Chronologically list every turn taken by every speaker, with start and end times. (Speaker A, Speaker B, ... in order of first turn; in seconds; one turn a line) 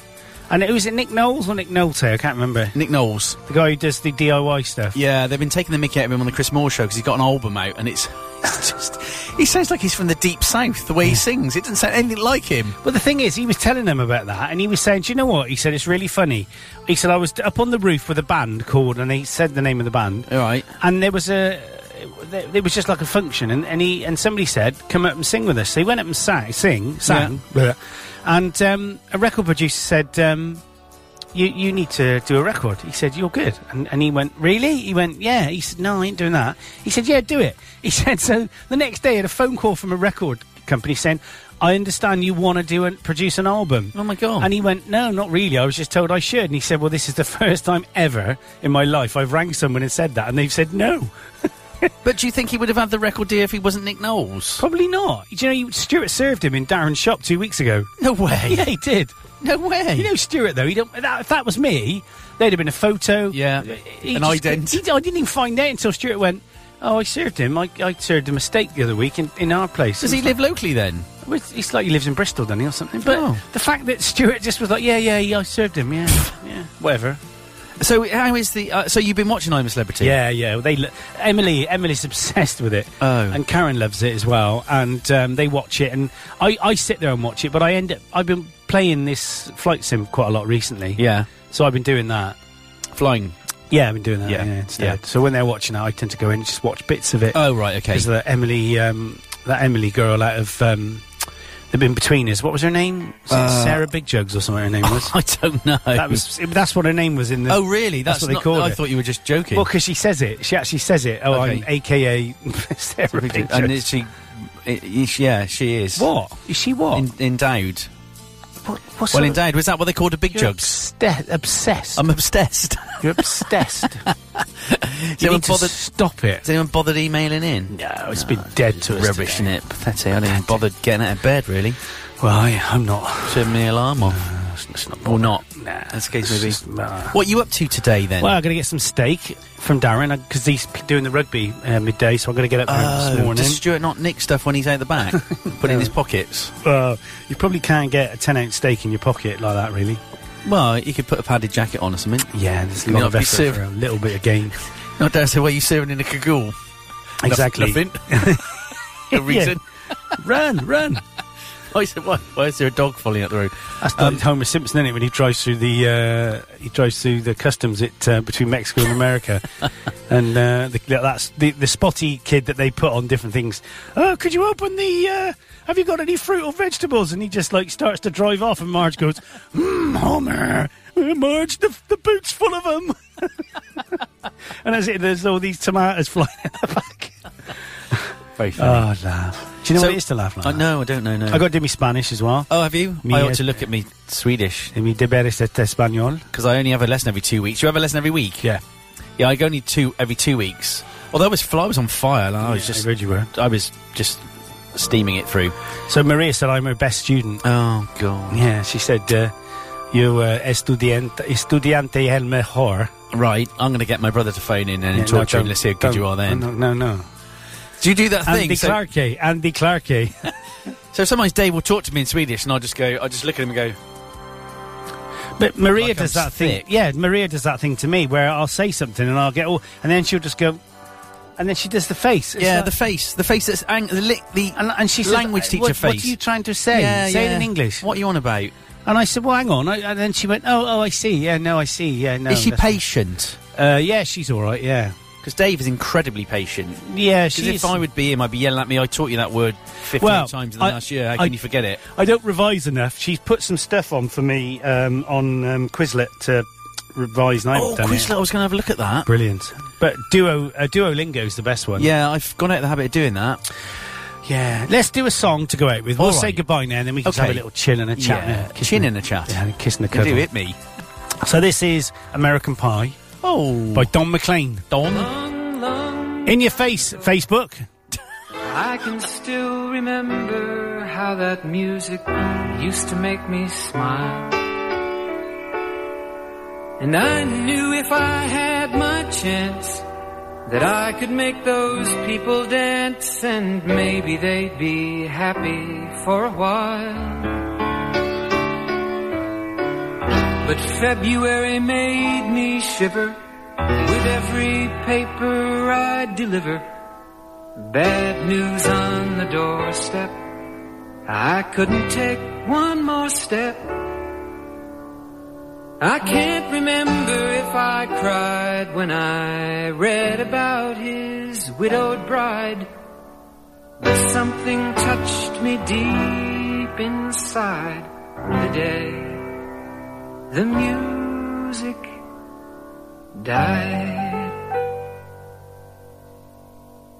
Speaker A: 0.5-2.7
Speaker B: 2.7-3.4
Speaker A: 3.5-5.0
Speaker B: 4.9-12.8
Speaker A: 12.8-20.3
Speaker B: 20.3-20.7
Speaker A: 20.8-30.6
Speaker B: 27.1-27.4
Speaker A: 31.3-51.1
Speaker B: 43.9-44.5
Speaker B: 52.0-54.6
Speaker A: 54.6-57.9
Speaker B: 58.0-58.7
Speaker A: 58.4-59.1
Speaker B: 59.4-60.1
Speaker A: 60.0-70.3
Speaker B: 63.3-64.8
Speaker B: 70.0-71.1
Speaker A: 71.2-77.2
Speaker B: 73.0-73.4
Speaker B: 77.8-80.2
Speaker A: 80.0-92.3
Speaker B: 83.0-83.4
Speaker B: 91.0-91.3
Speaker B: 92.9-93.3
Speaker A: 93.7-101.1
Speaker B: 94.2-95.0
Speaker B: 97.3-98.1
Speaker A: 101.7-105.1
Speaker B: 103.3-103.9
Speaker B: 104.8-106.2
Speaker A: 105.9-108.8
Speaker B: 107.5-109.7
Speaker A: 109.5-113.7
Speaker B: 111.3-111.7
Speaker B: 113.1-116.1
Speaker A: 116.0-117.1
Speaker B: 116.9-117.9
Speaker A: 118.6-119.4
Speaker B: 119.1-120.8
Speaker A: 120.3-122.0
Speaker B: 122.0-125.8
Speaker A: 123.0-124.0
Speaker A: 125.2-126.4
Speaker B: 126.4-131.8
Speaker A: 127.7-129.6
Speaker A: 130.2-130.6
Speaker A: 132.2-133.4
Speaker B: 133.2-134.2
Speaker A: 134.0-137.1
Speaker B: 135.0-136.6
Speaker B: 137.1-138.3
Speaker A: 138.2-143.6
Speaker B: 142.7-146.5
Speaker A: 145.1-145.9
Speaker A: 146.6-150.0
Speaker B: 150.4-152.3
Speaker A: 152.3-154.6
Speaker B: 152.8-153.6
Speaker B: 155.0-156.5
Speaker A: 157.2-158.4
Speaker B: 157.2-158.5
Speaker B: 159.1-159.6
Speaker A: 159.1-159.6
Speaker A: 160.2-161.0
Speaker B: 161.7-164.2
Speaker A: 163.8-169.4
Speaker A: 170.1-183.3
Speaker A: 184.6-187.2
Speaker B: 188.4-188.9
Speaker A: 188.6-190.7
Speaker B: 189.7-191.5
Speaker A: 191.3-192.5
Speaker B: 192.5-194.7
Speaker A: 193.0-193.6
Speaker A: 194.7-196.2
Speaker B: 196.3-198.4
Speaker B: 199.2-205.5
Speaker A: 202.4-203.3
Speaker A: 205.9-207.4
Speaker B: 207.4-208.4
Speaker A: 208.3-209.3
Speaker A: 209.9-212.9
Speaker B: 213.1-216.5
Speaker A: 214.9-217.0
Speaker B: 217.8-218.8
Speaker A: 218.2-220.3
Speaker B: 220.9-223.8
Speaker A: 225.4-230.6
Speaker B: 225.8-226.6
Speaker A: 231.4-232.7
Speaker B: 232.4-236.1
Speaker A: 234.6-237.9
Speaker B: 236.7-238.5
Speaker A: 238.8-242.8
Speaker B: 242.3-243.4
Speaker A: 243.5-244.9
Speaker B: 245.2-251.8
Speaker A: 246.8-247.8
Speaker A: 250.0-258.1
Speaker B: 257.5-259.1
Speaker A: 259.1-261.9
Speaker B: 261.8-263.4
Speaker A: 264.2-270.3
Speaker B: 266.0-266.4
Speaker B: 267.0-267.4
Speaker B: 268.0-269.4
Speaker B: 269.9-270.6
Speaker A: 271.2-272.9
Speaker B: 273.2-273.9
Speaker A: 273.7-274.6
Speaker B: 274.7-275.1
Speaker C: 274.8-276.9
Speaker A: 276.2-277.6
Speaker C: 278.4-284.4
Speaker C: 286.8-289.9
Speaker C: 290.4-297.4
Speaker C: 300.4-303.2
Speaker C: 303.7-306.7
Speaker C: 307.6-310.2
Speaker C: 311.1-313.8
Speaker C: 315.8-322.7
Speaker C: 323.8-329.2
Speaker C: 330.3-331.9
Speaker C: 333.1-334.4